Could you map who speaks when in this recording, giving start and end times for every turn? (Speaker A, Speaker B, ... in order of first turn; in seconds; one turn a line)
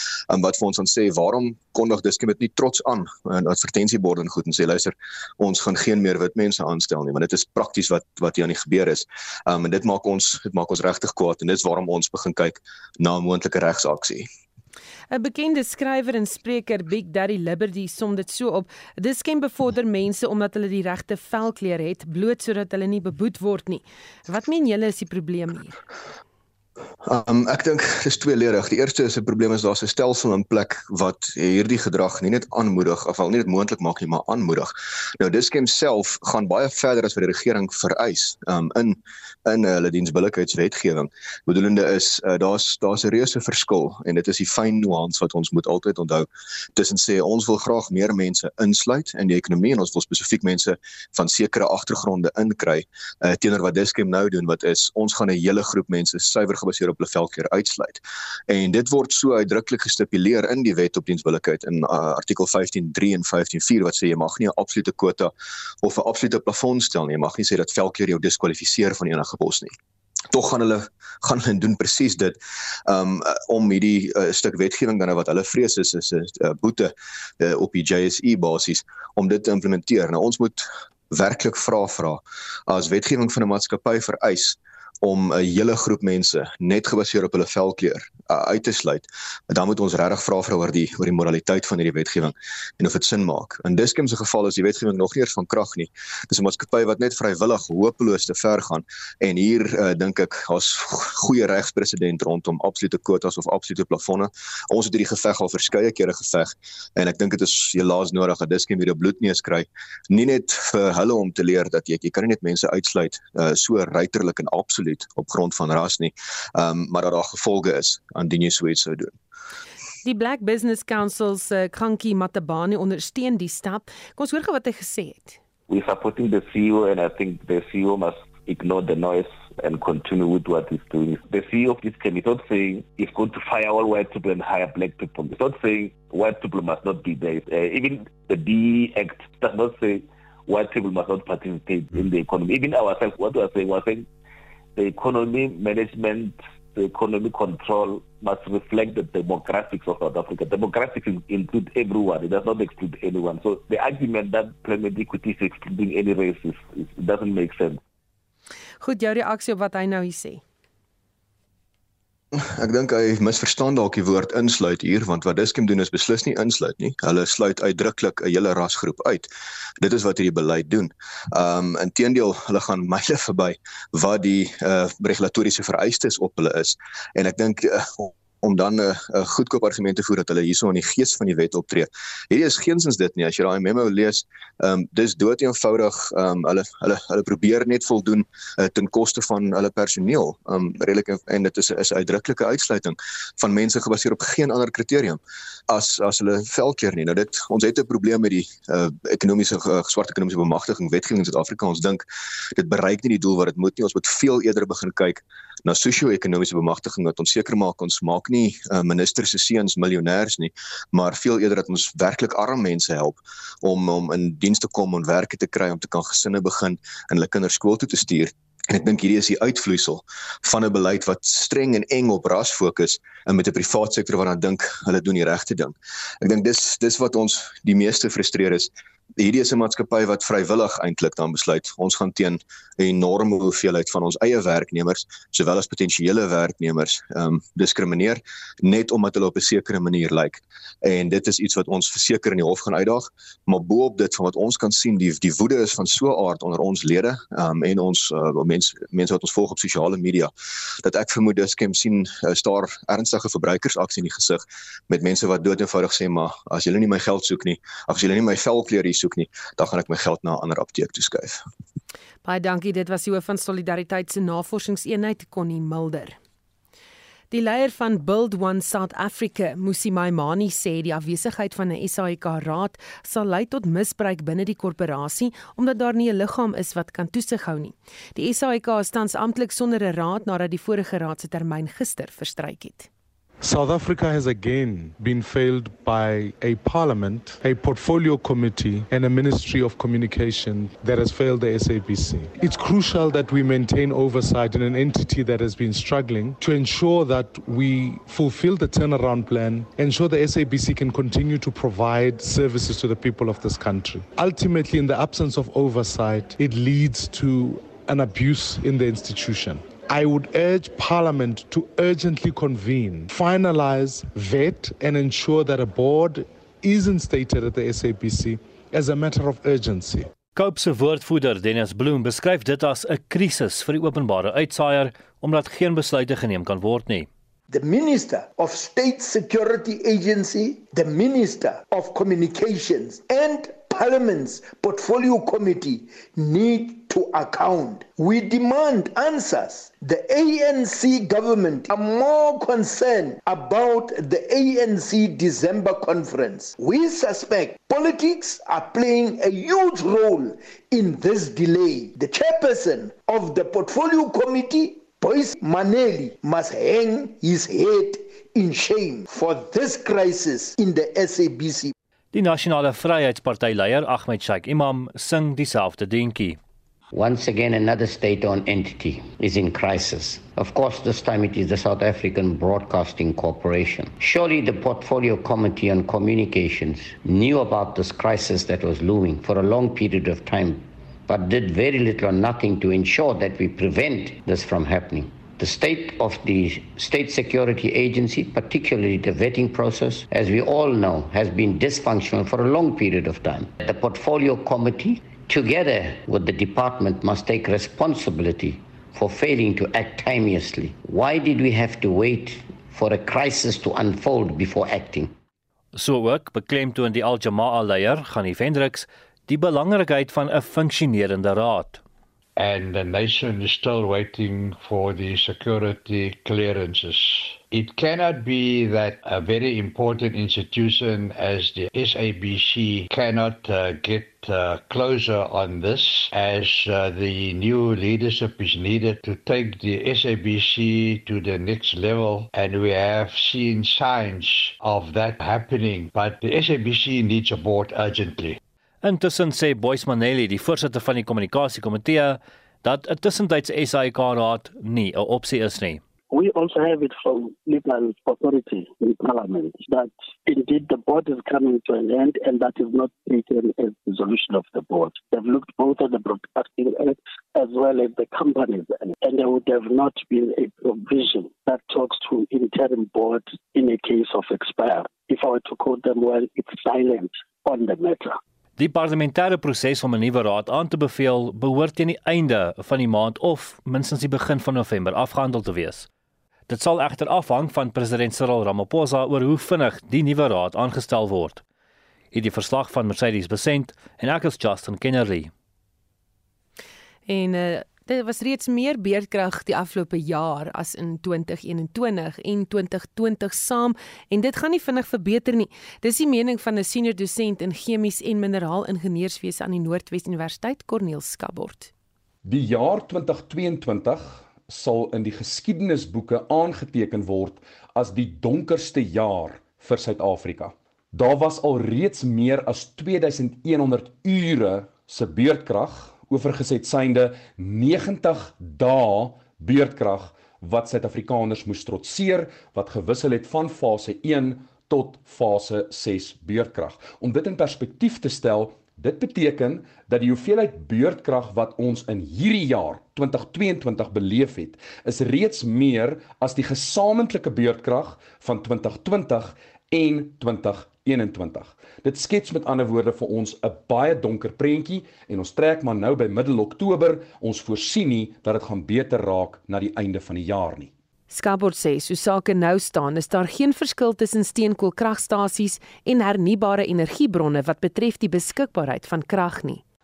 Speaker A: 0.3-14.3
Speaker B: 15.1-25.8
Speaker A: 27.0-69.8
Speaker A: 70.3-119.2
Speaker B: 120.0-125.4
Speaker C: 125.7-144.1
Speaker C: 144.8-157.8
Speaker B: 158.8-160.4
Speaker A: 162.3-169.3
Speaker A: 169.8-250.3
Speaker A: 250.8-261.4
Speaker B: 262.2-266.2
Speaker B: 267.3-282.9
Speaker D: 283.4-320.1
Speaker E: 320.3-327.1
Speaker F: 327.5-361.7
Speaker E: 362.1-366.4
Speaker G: 366.9-405.1
Speaker E: 405.7-411.8
Speaker H: 412.4-438.4
Speaker E: 438.8-445.8
Speaker I: 446.1-468.2
Speaker E: 468.6-475.9
Speaker E: 476.5-481.4
Speaker E: 482.1-485.3
Speaker B: 487.1-501.7
Speaker J: 502.2-550.7
Speaker B: 551.1-559.6